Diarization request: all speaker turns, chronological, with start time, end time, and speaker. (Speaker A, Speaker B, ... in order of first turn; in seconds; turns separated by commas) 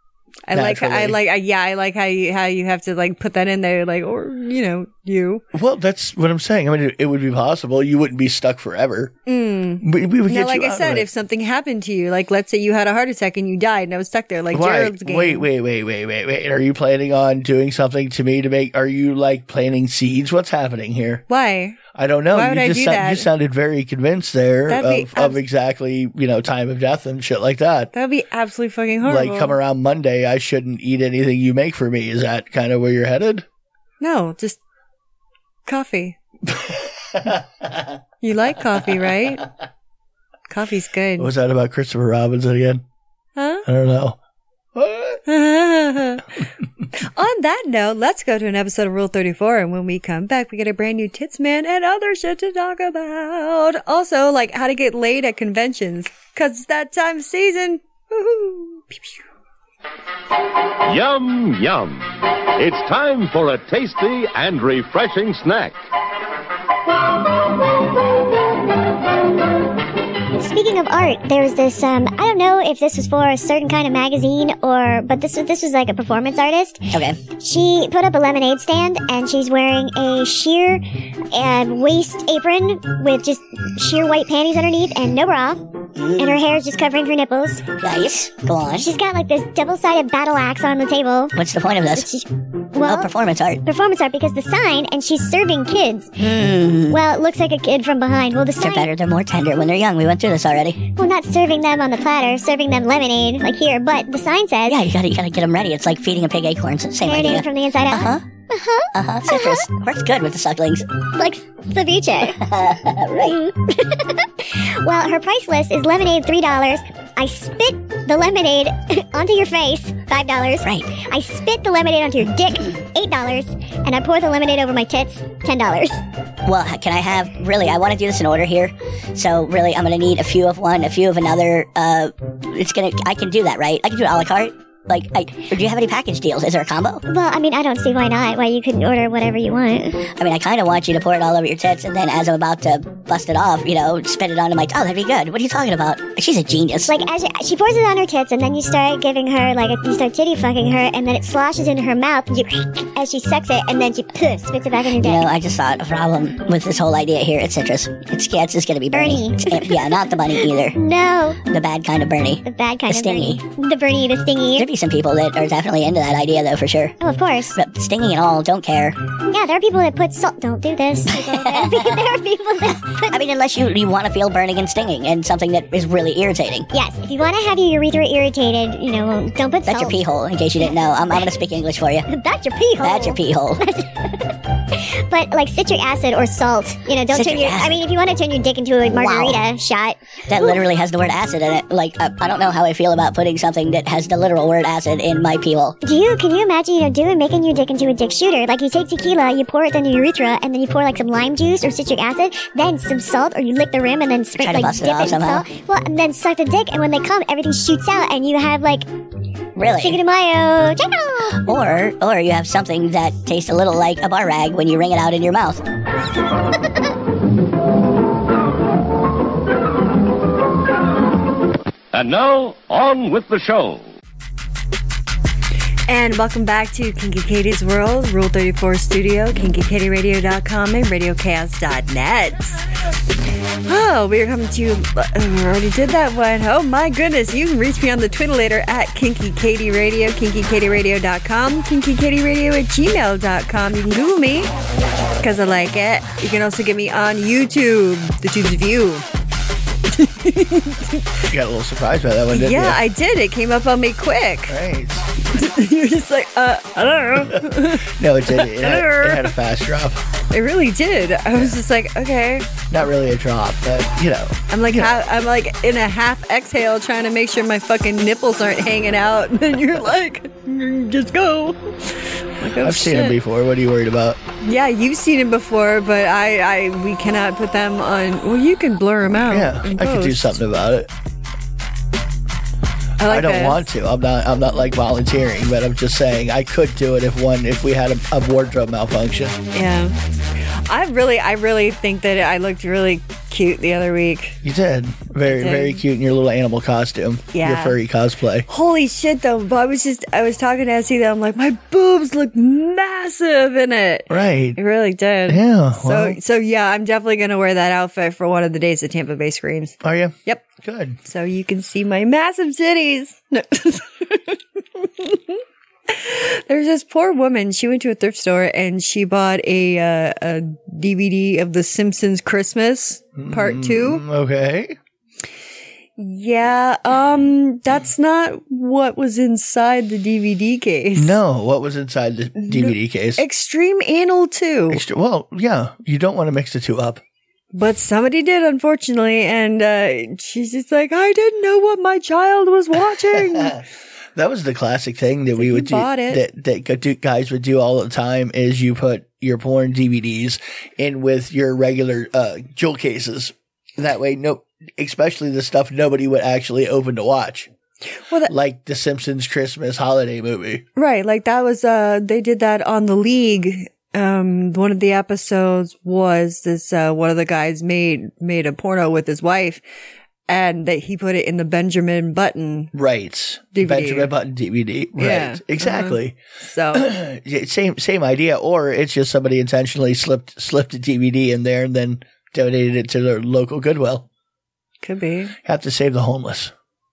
Speaker A: 0.5-5.4, Speaker B: 0.5-1.2, Speaker B: 5.5-9.1, Speaker A: 9.2-15.5, Speaker B: 9.8-11.1, Speaker B: 14.5-21.2, Speaker A: 21.3-21.8, Speaker B: 21.9-27.9, Speaker A: 22.3-23.3, Speaker A: 24.7-25.4, Speaker A: 27.9-29.6, Speaker B: 29.0-33.5, Speaker A: 34.0-34.6, Speaker A: 35.6-36.2, Speaker B: 36.5-37.9, Speaker A: 38.2-39.4, Speaker A: 40.5-41.3, Speaker B: 41.2-42.8, Speaker A: 43.4-43.6, Speaker B: 43.6-44.2, Speaker B: 44.7-45.2, Speaker A: 45.2-46.3, Speaker A: 46.9-59.2, Speaker C: 60.8-65.8, Speaker D: 70.4-85.6, Speaker E: 76.9-77.2, Speaker E: 86.0-86.4, Speaker D: 86.2-87.7, Speaker E: 87.7-88.9, Speaker D: 88.7-91.3, Speaker E: 91.3-92.1, Speaker D: 91.9-93.1, Speaker E: 92.8-93.6, Speaker D: 93.6-96.2, Speaker E: 96.2-97.0, Speaker D: 96.9-98.9, Speaker E: 98.6-100.9, Speaker D: 101.0-104.8, Speaker E: 104.7-108.2, Speaker D: 107.0-109.7, Speaker E: 108.9-110.9, Speaker D: 111.2-112.4, Speaker E: 112.3-113.4, Speaker D: 113.2-126.0, Speaker E: 120.6-121.0, Speaker E: 126.5-137.0, Speaker D: 137.1-140.1, Speaker E: 140.2-146.9, Speaker D: 146.8-155.3, Speaker E: 154.9-160.8, Speaker D: 158.9-161.4, Speaker E: 161.5-163.4, Speaker D: 162.4-164.7, Speaker E: 164.5-166.9, Speaker D: 167.0-167.6, Speaker E: 167.5-169.0, Speaker D: 169.3-173.2, Speaker E: 171.1-172.0, Speaker E: 173.1-176.7, Speaker D: 176.7-180.0, Speaker E: 179.6-182.1, Speaker D: 180.6-181.2, Speaker D: 182.1-190.6, Speaker E: 182.8-183.6, Speaker E: 187.1-187.8, Speaker E: 188.9-189.4, Speaker E: 190.3-195.8, Speaker D: 195.8-208.9, Speaker E: 204.3-205.5, Speaker E: 209.6-210.0, Speaker D: 209.7-211.4, Speaker E: 211.4-215.6, Speaker C: 221.9-223.8, Speaker A: 225.9-232.6, Speaker A: 233.7-244.5, Speaker A: 245.2-249.1, Speaker A: 249.9-251.2, Speaker B: 251.3-252.8, Speaker A: 252.3-254.6, Speaker B: 254.5-255.1, Speaker A: 255.2-259.4, Speaker B: 257.3-260.0, Speaker A: 260.3-262.5, Speaker B: 262.7-265.0, Speaker A: 264.5-273.2, Speaker B: 272.6-274.2, Speaker A: 274.4-280.4, Speaker B: 279.3-280.9, Speaker A: 283.0-283.7, Speaker B: 283.1-289.4, Speaker A: 289.5-294.4, Speaker B: 294.4-298.5, Speaker A: 295.2-295.8, Speaker A: 297.3-297.8, Speaker A: 298.5-310.5, Speaker B: 304.1-304.6, Speaker B: 305.3-306.2, Speaker B: 309.8-311.0, Speaker A: 311.0-324.0, Speaker B: 323.1-324.8, Speaker A: 326.0-331.2, Speaker B: 330.9-333.2, Speaker A: 332.4-334.8, Speaker B: 334.7-337.0, Speaker A: 337.5-343.6, Speaker B: 343.2-343.6, Speaker B: 344.1-357.5, Speaker A: 345.3-346.2, Speaker B: 358.2-360.6, Speaker A: 360.8-369.6, Speaker A: 370.3-372.7, Speaker B: 372.7-376.2, Speaker A: 373.5-374.1, Speaker A: 374.9-376.9, Speaker B: 376.7-384.1, Speaker A: 384.8-385.3, Speaker B: 385.4-386.5